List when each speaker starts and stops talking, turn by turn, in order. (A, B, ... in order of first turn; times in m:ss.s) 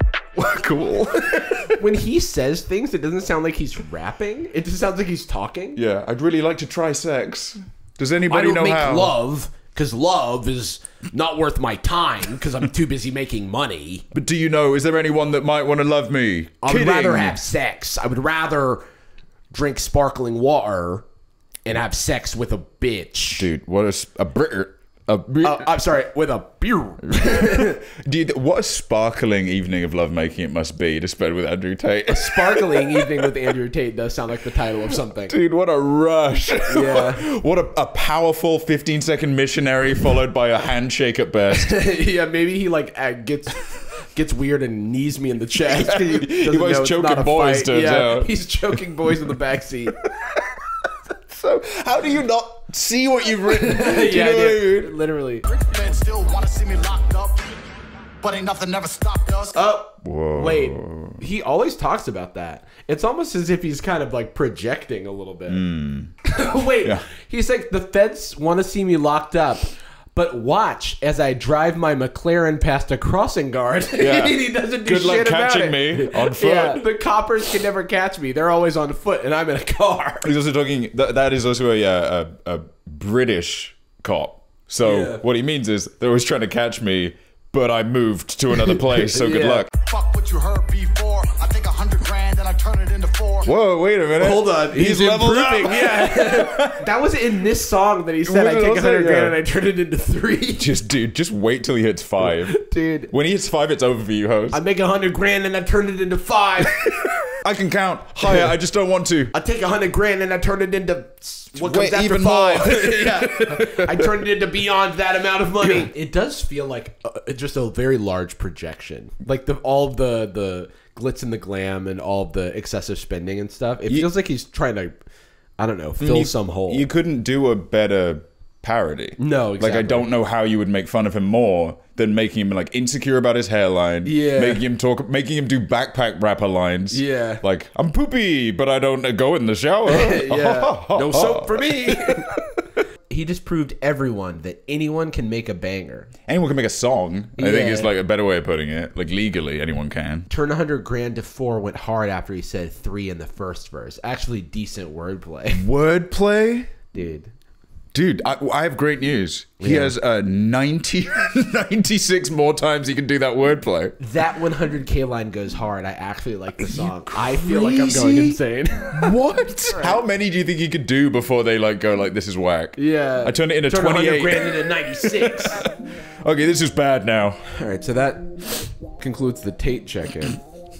0:00.4-0:01.8 A
0:01.8-0:05.8 B
0:05.8-0:09.1 A
0:08.3-0:14.0 B
0:14.1-0:17.4 A
0:16.6-0:18.8 B
0:19.5-0:21.0 B
0:21.6-0:23.5 B
0:23.3-0:25.7 A
0:25.4-0:27.8 B
0:27.1-0:33.3 A
0:32.1-0:35.3 B
0:35.3-0:41.8 A
0:36.7-0:37.3 B
0:41.6-0:49.9 B
0:45.7-0:49.3 A
0:51.3-0:54.9 A
0:53.4-0:55.9 B
0:55.7-0:57.4 C
0:58.2-0:59.6 C
0:59.5-1:05.6 B
1:00.0-1:01.2 A
1:05.5-1:06.1 A
1:06.3-1:20.3 B
1:14.0-1:16.8 A
1:20.2-1:29.7 A
1:24.8-1:25.2 B
1:28.6-1:29.7 B
1:29.7-1:33.5 C
1:33.4-1:36.9 A
1:34.2-1:40.7 B
1:38.2-1:39.4 A
1:40.6-1:44.6 A
1:42.2-1:43.1 B
1:44.5-1:47.0 B
1:46.8-1:49.3 A
1:49.3-2:04.9 B
1:51.5-1:54.1 A
1:55.6-1:55.9 A
2:05.6-2:06.9 B
2:06.0-2:22.2 A
2:09.2-2:10.1 B
2:14.0-2:14.6 B
2:16.9-2:17.4 B
2:19.8-2:22.3 B
2:23.1-2:26.1 B
2:26.3-2:30.3 A
2:27.4-2:27.9 B
2:30.3-2:35.6 B
2:35.5-2:36.7 A
2:36.9-2:37.3 B
2:37.9-2:44.0 A
2:39.6-2:40.0 B
2:44.0-2:49.2 B
2:46.6-2:48.4 A
2:48.9-2:57.4 A
2:49.7-2:50.0 B
2:52.8-2:55.6 B
2:57.4-3:00.4 B